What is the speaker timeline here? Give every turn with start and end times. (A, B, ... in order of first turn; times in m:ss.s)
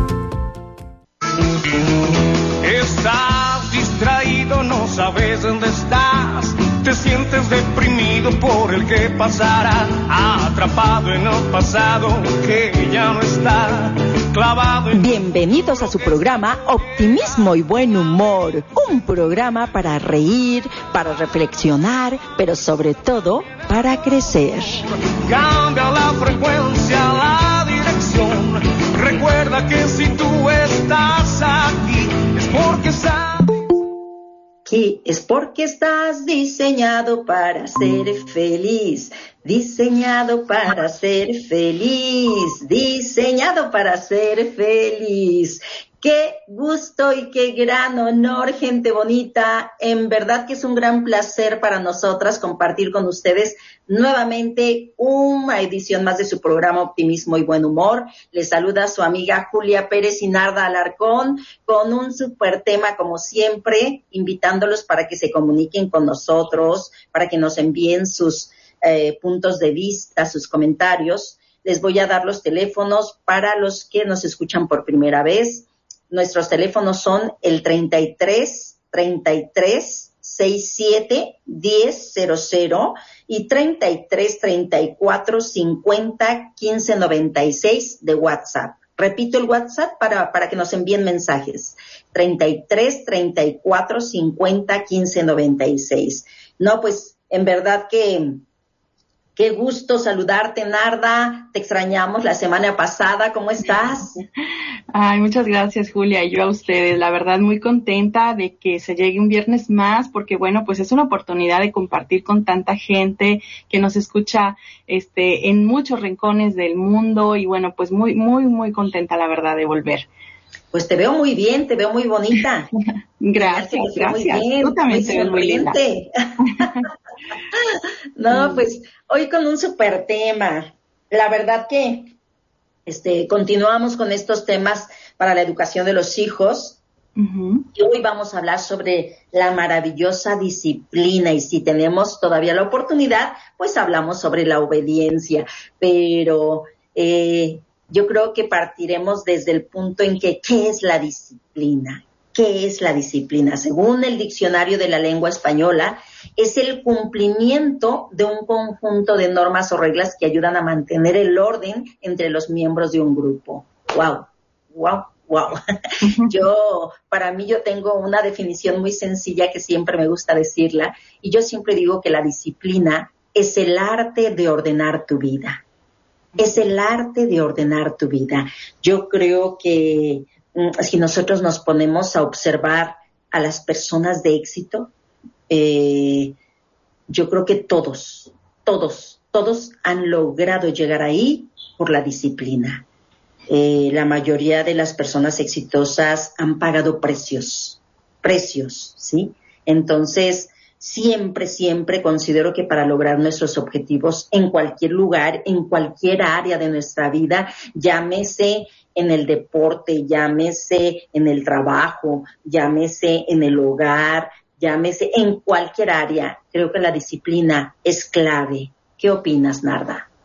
0:01.4-0:15.1 A
0:14.9-0:24.8 B
0:25.1-0:33.6 A
0:34.6-1:38.4 B
1:39.4-1:44.2 B
1:44.9-2:00.1 C
2:00.7-2:02.7 B
2:03.2-2:05.8 C
2:03.4-2:06.7 B
2:06.5-2:06.8 C
2:07.5-2:12.1 B
2:08.3-2:08.6 C
2:12.9-2:16.8 B
2:17.2-2:17.7 C
2:17.7-2:45.6 B
2:46.0-2:46.3 C
2:46.3-2:55.6 B
2:56.4-3:04.9 B
3:05.5-3:06.4 B
3:07.1-3:12.8 B
3:13.5-3:40.1 B